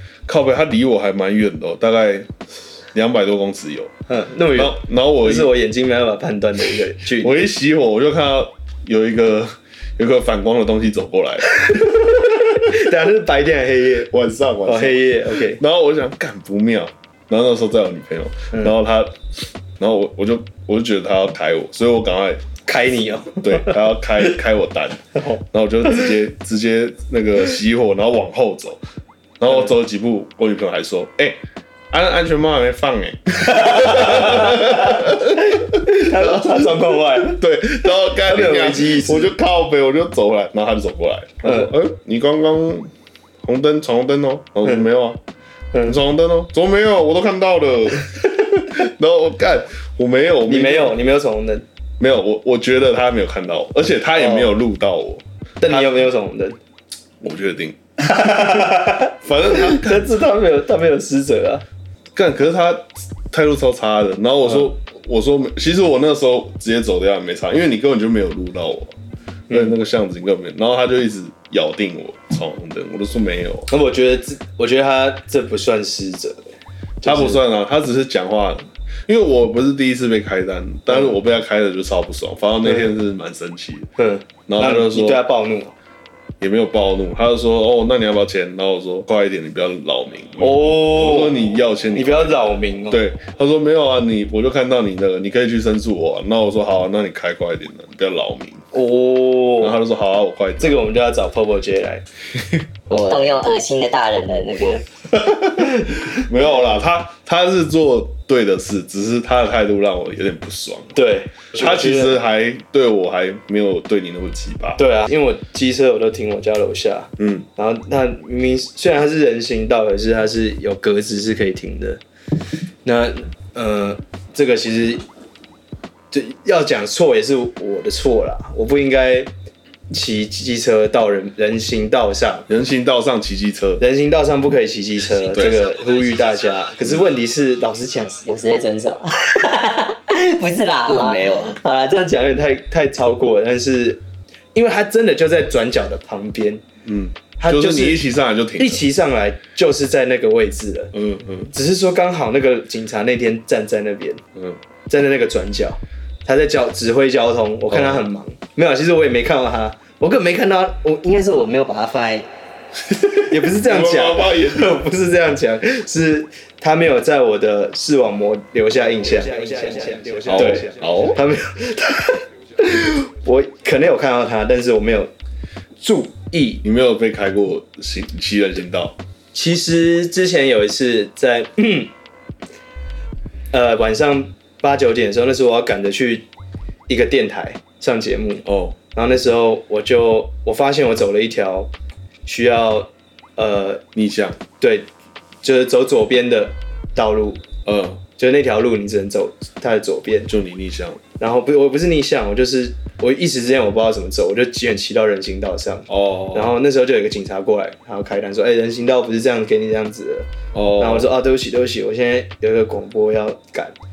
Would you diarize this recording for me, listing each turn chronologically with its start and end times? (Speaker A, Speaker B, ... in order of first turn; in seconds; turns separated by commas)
Speaker A: 0.2-2.3, Speaker A: 2.9-3.9, Speaker B: 4.1-7.3, Speaker A: 4.5-5.5, Speaker A: 7.2-11.7, Speaker B: 11.6-14.1, Speaker A: 14.1-19.2, Speaker B: 14.6-15.6, Speaker A: 19.8-22.4, Speaker B: 22.6-23.8, Speaker A: 23.4-28.8, Speaker A: 29.4-31.4, Speaker A: 31.9-42.9, Speaker B: 33.6-37.4, Speaker B: 38.1-39.3, Speaker B: 41.4-41.7, Speaker A: 43.4-45.2, Speaker A: 45.8-51.0, Speaker B: 50.5-51.6, Speaker A: 52.0-55.9, Speaker B: 54.2-54.5, Speaker B: 55.6-56.6, Speaker A: 57.2-60.2, Speaker B: 58.1-61.6, Speaker A: 62.1-69.0, Speaker A: 69.5-73.7, Speaker B: 73.7-77.4, Speaker A: 77.0-83.9, Speaker B: 84.0-85.7, Speaker A: 84.5-85.2, Speaker A: 86.4-98.6, Speaker B: 90.4-93.0, Speaker B: 98.7-99.8, Speaker A: 99.6-100.8, Speaker B: 100.6-102.0, Speaker C: 102.9-104.8, Speaker A: 105.1-111.0, Speaker B: 110.9-112.2, Speaker A: 111.5-114.8, Speaker B: 114.8-122.0, Speaker A: 117.2-117.5, Speaker B: 122.8-125.0, Speaker B: 126.1-129.3, Speaker B: 129.9-132.5, Speaker A: 132.5-133.8, Speaker B: 133.8-138.3, Speaker A: 135.3-135.6, Speaker A: 136.8-137.1, Speaker C: 138.2-141.6, Speaker B: 141.5-146.6, Speaker A: 146.8-148.8, Speaker B: 147.4-150.9, Speaker A: 150.9-151.5, Speaker B: 151.5-154.2, Speaker B: 154.9-161.0, Speaker A: 157.7-158.0, Speaker C: 161.0-162.3, Speaker A: 163.0-164.8, Speaker B: 163.2-175.1, Speaker A: 170.2-171.2, Speaker B: 175.8-176.6, Speaker A: 176.6-179.0, Speaker B: 179.3-181.9, Speaker B: 183.5-186.3, Speaker B: 186.9-191.7, Speaker A: 188.4-188.8, Speaker B: 192.2-193.8, Speaker A: 193.9-194.4, Speaker B: 194.6-194.9, Speaker B: 195.4-197.4, Speaker A: 197.7-198.0, Speaker B: 198.2-200.3, Speaker A: 200.3-201.0, Speaker B: 201.2-213.8, Speaker A: 205.9-206.5, Speaker A: 210.5-211.1